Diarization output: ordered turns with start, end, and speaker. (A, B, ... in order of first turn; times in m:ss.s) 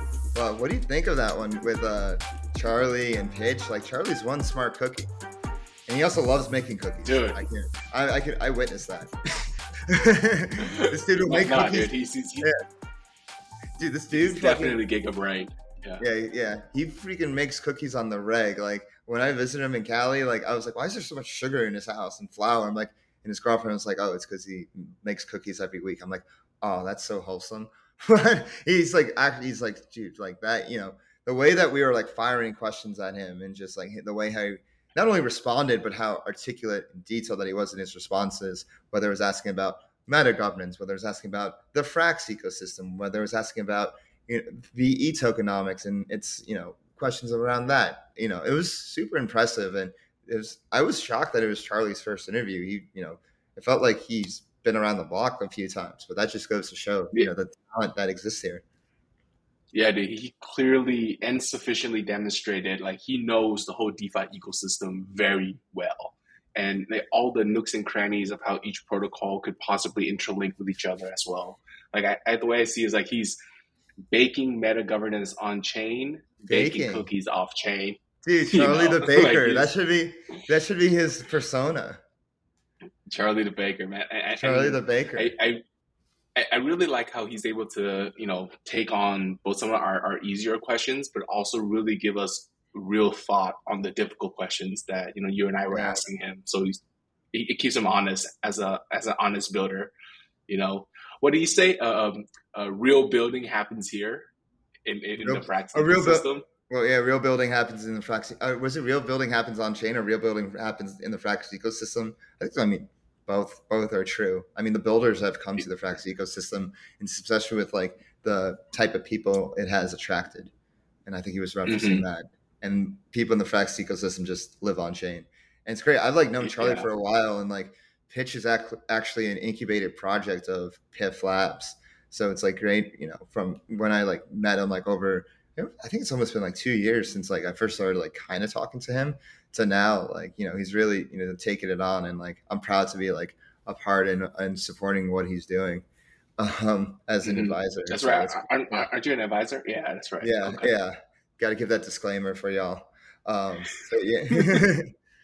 0:00.3-0:05.1 A
0:05.9-0:12.6 A
0:07.0-0:07.4 B
0:10.6-0:12.5 B
0:13.8-0:14.8 A
0:14.2-0:16.0 B
0:16.0-0:58.6 A
0:59.7-1:13.4 B
1:14.1-1:18.0 B
1:16.5-1:17.1 A
1:18.2-1:22.0 A
1:18.5-1:19.7 B
1:23.1-1:25.6 B
1:24.4-1:25.3 A
1:26.4-1:36.8 B
1:35.7-1:36.0 A
1:37.3-1:39.9 B
1:40.5-1:44.3 B
1:44.8-1:46.4 B
1:45.2-2:00.5 A
2:01.0-2:25.8 A
2:01.6-2:02.0 B
2:06.4-2:06.9 B
2:26.4-2:28.9 A
2:27.2-2:30.7 B
2:30.2-2:34.9 A